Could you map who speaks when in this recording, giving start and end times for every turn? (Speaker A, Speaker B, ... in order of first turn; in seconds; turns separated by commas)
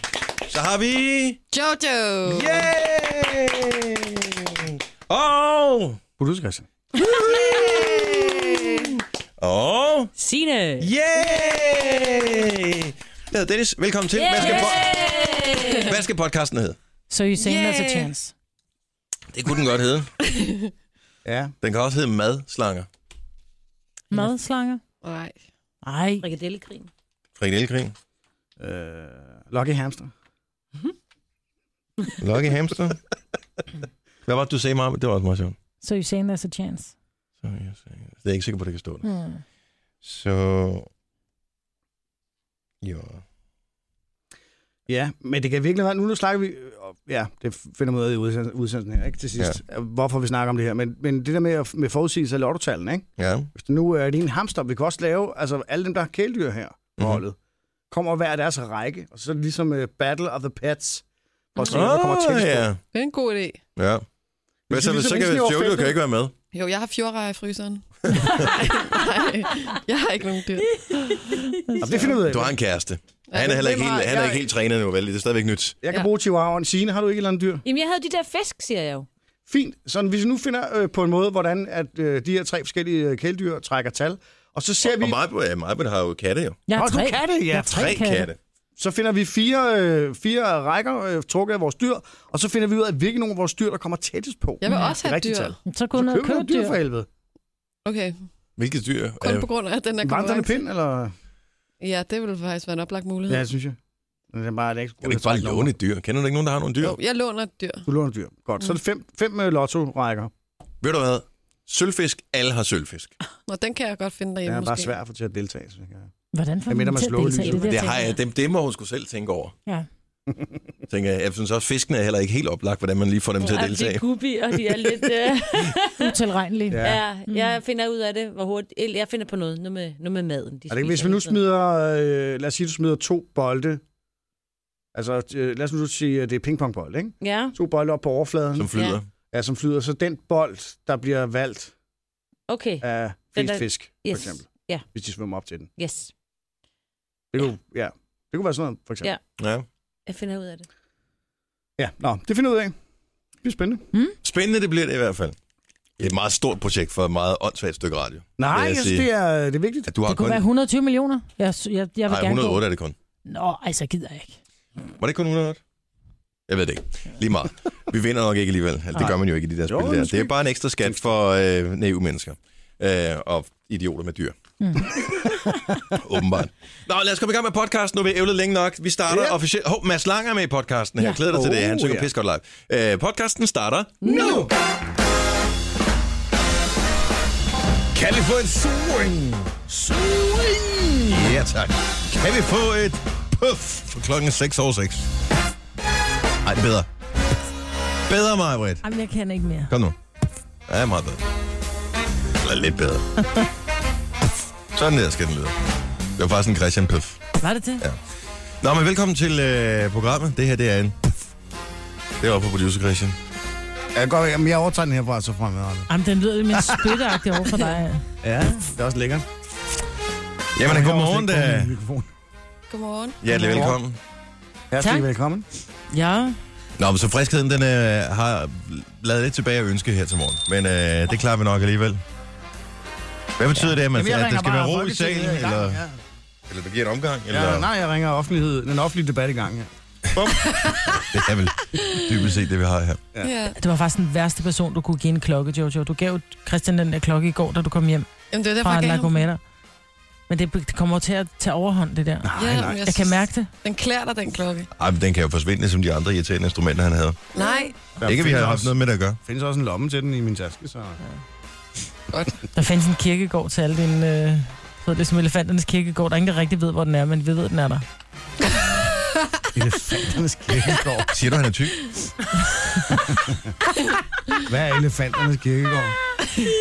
Speaker A: 0.5-1.4, Speaker B: 1.5-2.7, Speaker A: 2.2-6.0, Speaker C: 6.2-6.7, Speaker A: 7.0-10.1, Speaker D: 10.2-10.9, Speaker A: 10.8-14.9, Speaker D: 14.1-15.9, Speaker A: 15.8-16.8, Speaker E: 17.1-18.3, Speaker B: 17.4-18.1, Speaker A: 19.3-20.1, Speaker B: 20.2-20.7, Speaker C: 21.2-21.5, Speaker A: 21.6-22.9, Speaker E: 24.1-24.8, Speaker B: 25.0-25.4, Speaker E: 25.8-26.2, Speaker D: 26.2-26.9, Speaker A: 27.4-27.9, Speaker C: 28.6-30.1, Speaker A: 32.2-33.0, Speaker A: 34.2-35.5, Speaker E: 35.8-36.9, Speaker A: 37.4-39.0, Speaker E: 39.0-39.4, Speaker A: 40.0-40.9, Speaker A: 42.8-43.2, Speaker C: 44.9-57.4, Speaker A: 53.2-53.5, Speaker C: 57.9-62.7, Speaker A: 61.6-62.8, Speaker B: 62.9-63.6, Speaker A: 63.8-64.0, Speaker C: 64.7-66.0, Speaker A: 64.7-66.3, Speaker B: 66.5-71.3, Speaker A: 68.1-68.5, Speaker D: 70.8-71.8, Speaker C: 71.8-72.6, Speaker A: 72.3-75.8, Speaker B: 73.3-73.6, Speaker C: 73.3-74.5, Speaker C: 75.8-77.6, Speaker D: 77.6-79.1, Speaker C: 79.5-85.2, Speaker A: 84.8-86.6, Speaker E: 86.7-88.3, Speaker C: 86.7-87.9, Speaker A: 87.7-88.4, Speaker C: 88.8-97.1, Speaker B: 94.6-95.6, Speaker E: 94.7-94.9, Speaker E: 95.7-96.8, Speaker B: 97.8-98.2, Speaker A: 98.6-99.5, Speaker B: 99.2-100.6, Speaker C: 100.0-101.1, Speaker B: 101.8-103.5, Speaker C: 103.3-103.8, Speaker C: 104.3-105.7, Speaker A: 105.0-107.0, Speaker B: 106.8-107.8, Speaker C: 107.8-110.3, Speaker A: 110.8-113.1, Speaker B: 113.5-114.9, Speaker C: 114.5-116.1, Speaker E: 116.3-118.1, Speaker C: 116.7-117.7, Speaker A: 117.6-119.5, Speaker D: 117.8-118.1, Speaker C: 120.3-120.5, Speaker A: 120.9-124.0, Speaker D: 123.4-126.1, Speaker E: 126.0-127.5, Speaker C: 126.7-127.0, Speaker D: 126.8-131.4, Speaker C: 130.7-133.8, Speaker C: 134.9-138.7, Speaker D: 137.2-137.5, Speaker A: 138.6-139.1, Speaker D: 138.7-139.0, Speaker C: 139.3-141.7, Speaker D: 142.5-144.8, Speaker C: 142.8-145.7, Speaker D: 145.8-146.1, Speaker C: 147.3-149.1, Speaker A: 149.4-149.6, Speaker D: 150.1-150.7, Speaker C: 151.8-152.7, Speaker C: 153.4-153.8, Speaker A: 154.2-155.3, Speaker A: 156.0-159.1, Speaker C: 158.4-159.9, Speaker A: 159.9-160.4, Speaker E: 160.0-162.6, Speaker A: 162.1-162.9, Speaker E: 163.2-164.4, Speaker A: 165.0-165.6, Speaker A: 166.5-174.3, Speaker C: 168.9-170.3, Speaker E: 174.6-174.9, Speaker A: 175.7-184.4, Speaker C: 179.1-179.4, Speaker C: 181.1-182.1, Speaker E: 184.0-184.4, Speaker C: 184.0-184.5, Speaker C: 187.9-191.4, Speaker A: 191.1-195.1, Speaker A: 196.4-196.9, Speaker A: 198.1-198.8, Speaker E: 198.8-199.7, Speaker A: 199.7-199.9, Speaker A: 200.7-201.2, Speaker A: 202.4-203.1, Speaker A: 204.7-205.6, Speaker A: 206.2-207.2, Speaker E: 207.4-207.8, Speaker A: 208.6-211.0, Speaker A: 212.2-213.2, Speaker C: 213.9-215.9, Speaker E: 215.9-218.0, Speaker C: 216.5-217.0, Speaker C: 218.2-219.3, Speaker A: 220.5-221.7, Speaker C: 220.6-222.1, Speaker B: 222.7-223.2, Speaker A: 223.2-224.0, Speaker C: 223.4-223.8, Speaker C: 224.7-225.4, Speaker E: 224.8-225.1, Speaker E: 225.9-226.3, Speaker A: 226.8-232.0, Speaker A: 233.4-235.8, Speaker C: 233.9-236.0, Speaker A: 236.5-237.7, Speaker C: 237.3-239.7, Speaker A: 240.1-243.1, Speaker B: 240.5-241.0, Speaker B: 241.7-242.0, Speaker B: 243.2-243.6, Speaker E: 243.6-248.1, Speaker B: 248.3-249.2, Speaker E: 248.6-249.4, Speaker E: 250.3-253.5, Speaker C: 252.2-252.8, Speaker B: 252.4-254.7, Speaker A: 254.8-257.3, Speaker B: 257.3-257.9, Speaker E: 257.4-257.7, Speaker C: 258.0-261.0, Speaker A: 258.0-259.2, Speaker B: 262.1-262.4, Speaker E: 262.5-267.8, Speaker C: 269.5-271.1, Speaker A: 271.1-271.9, Speaker E: 272.6-273.1, Speaker C: 273.1-273.5, Speaker C: 274.4-276.0